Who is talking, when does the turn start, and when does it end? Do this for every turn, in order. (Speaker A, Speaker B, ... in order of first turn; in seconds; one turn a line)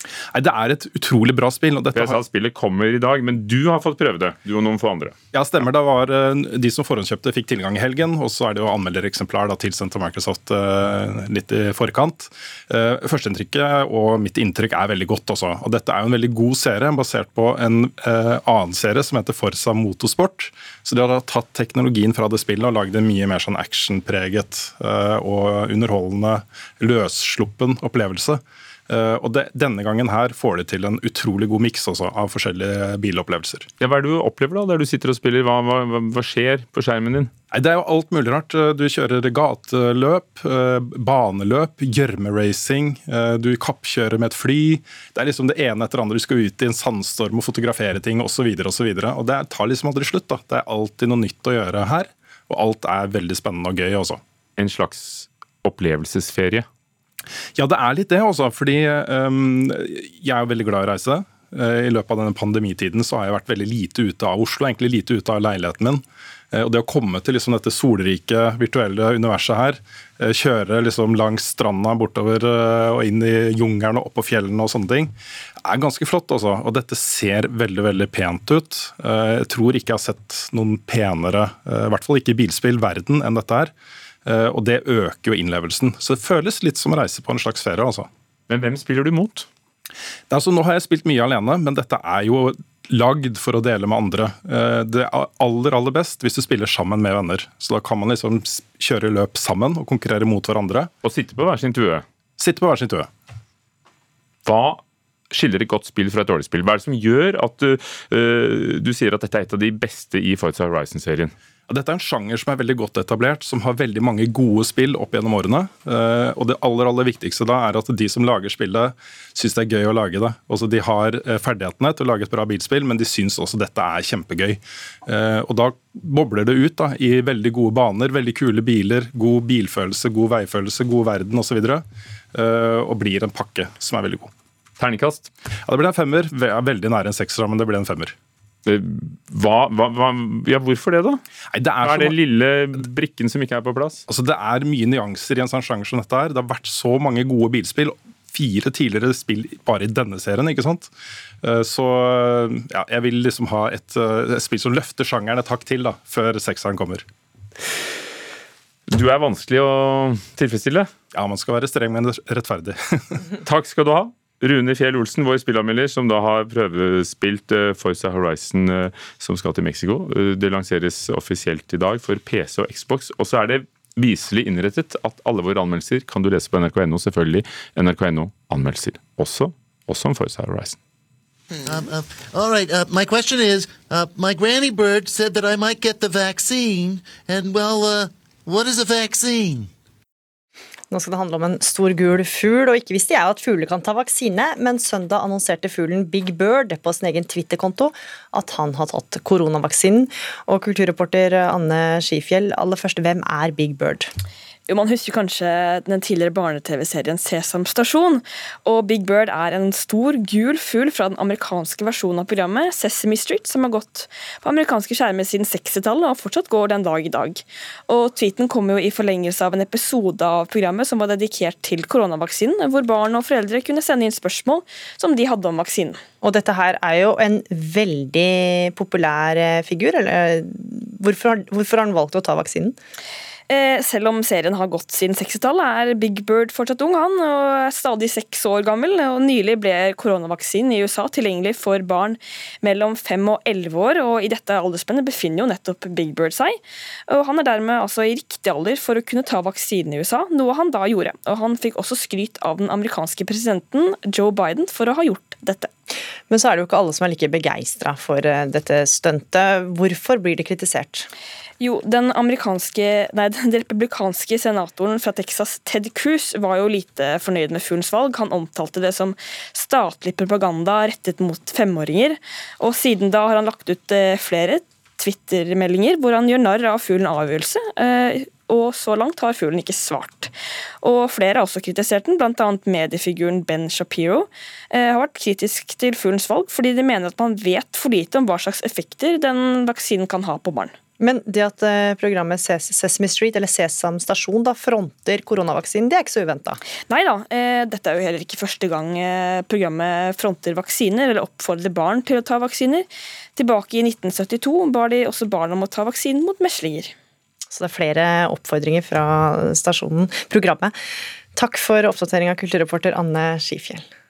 Speaker A: 0.3-2.2
Speaker B: 1.9-5.2
Speaker A: 5.3-33.7
Speaker B: 33.8-37.3
Speaker A: 37.5-54.2
Speaker B: 54.6-56.7
Speaker A: 57.5-75.1
Speaker A: 75.6-83.7
Speaker A: 84.2-88.1
Speaker B: 88.5-89.5
Speaker A: 90.3-100.9
Speaker B: 101.0-102.0
Speaker A: 102.4-103.1
Speaker B: 104.5-111.3
Speaker A: 111.7-134.3
Speaker B: 134.8-135.3
Speaker A: 135.7-138.2
Speaker B: 138.7-141.2
Speaker A: 141.5-142.2
Speaker B: 141.8-144.0
Speaker A: 144.1-150.9
Speaker A: 151.4-157.1
Speaker B: 158.9-160.9
Speaker A: 161.1-163.3
Speaker B: 163.3-180.8
Speaker C: 181.5-189.7
Speaker D: 190.9-204.1
Speaker E: 204.7-226.0
Speaker D: 226.2-232.8
Speaker E: 233.5-246.6
Speaker E: 247.1-255.7
Speaker D: 256.3-261.1
Speaker E: 261.6-280.3
Speaker E: 280.8-290.7
Speaker D: 291.0-296.6
Speaker E: 296.9-306.9
Speaker D: 307.5-310.7
Speaker D: 311.4-313.8